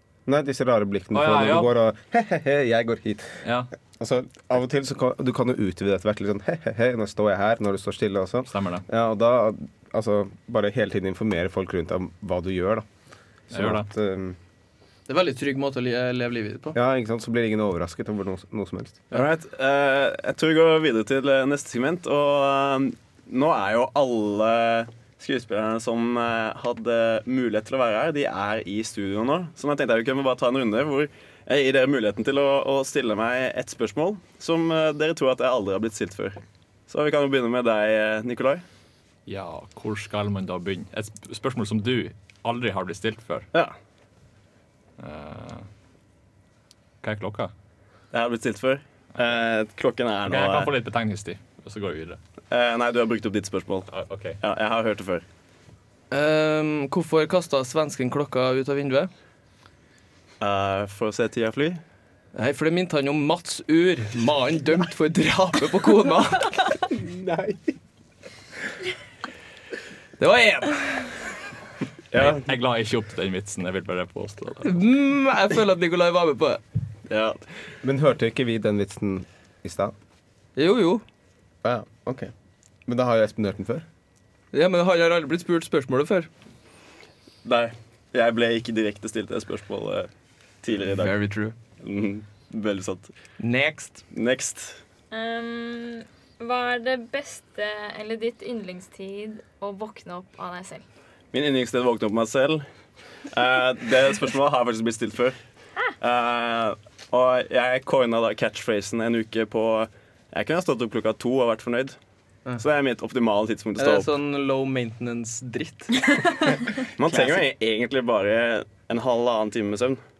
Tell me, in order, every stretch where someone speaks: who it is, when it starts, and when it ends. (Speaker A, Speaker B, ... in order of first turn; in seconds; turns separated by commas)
Speaker A: 0.3-3.4, Speaker B: 1.1-1.7, Speaker B: 3.4-3.7, Speaker A: 4.0-12.8, Speaker B: 8.5-8.8, Speaker A: 13.5-14.3, Speaker B: 13.5-13.9, Speaker C: 15.1-16.8, Speaker A: 16.7-19.0, Speaker D: 19.1-38.6, Speaker B: 39.3-43.5, Speaker B: 45.0-45.6, Speaker B: 47.0-47.5, Speaker D: 48.1-50.7, Speaker B: 50.3-52.2, Speaker D: 52.5-53.9, Speaker B: 53.9-54.4, Speaker D: 54.4-55.2, Speaker C: 56.1-59.1, Speaker D: 60.4-61.8, Speaker C: 62.3-66.8, Speaker A: 67.0-67.6, Speaker C: 70.2-71.2, Speaker D: 72.1-72.5, Speaker B: 72.2-74.8, Speaker C: 74.6-76.6, Speaker D: 77.1-77.4, Speaker A: 77.8-79.9, Speaker C: 80.5-81.0, Speaker A: 81.6-82.3, Speaker A: 82.8-83.8, Speaker C: 84.5-86.3, Speaker D: 87.4-90.1, Speaker D: 90.6-91.1, Speaker C: 90.9-91.5, Speaker D: 91.8-93.1, Speaker C: 93.4-94.0, Speaker D: 94.1-94.8, Speaker E: 95.1-100.8, Speaker D: 101.3-102.6, Speaker D: 103.3-105.3, Speaker D: 106.0-112.0, Speaker D: 112.6-114.1, Speaker C: 113.8-116.0, Speaker D: 117.0-120.0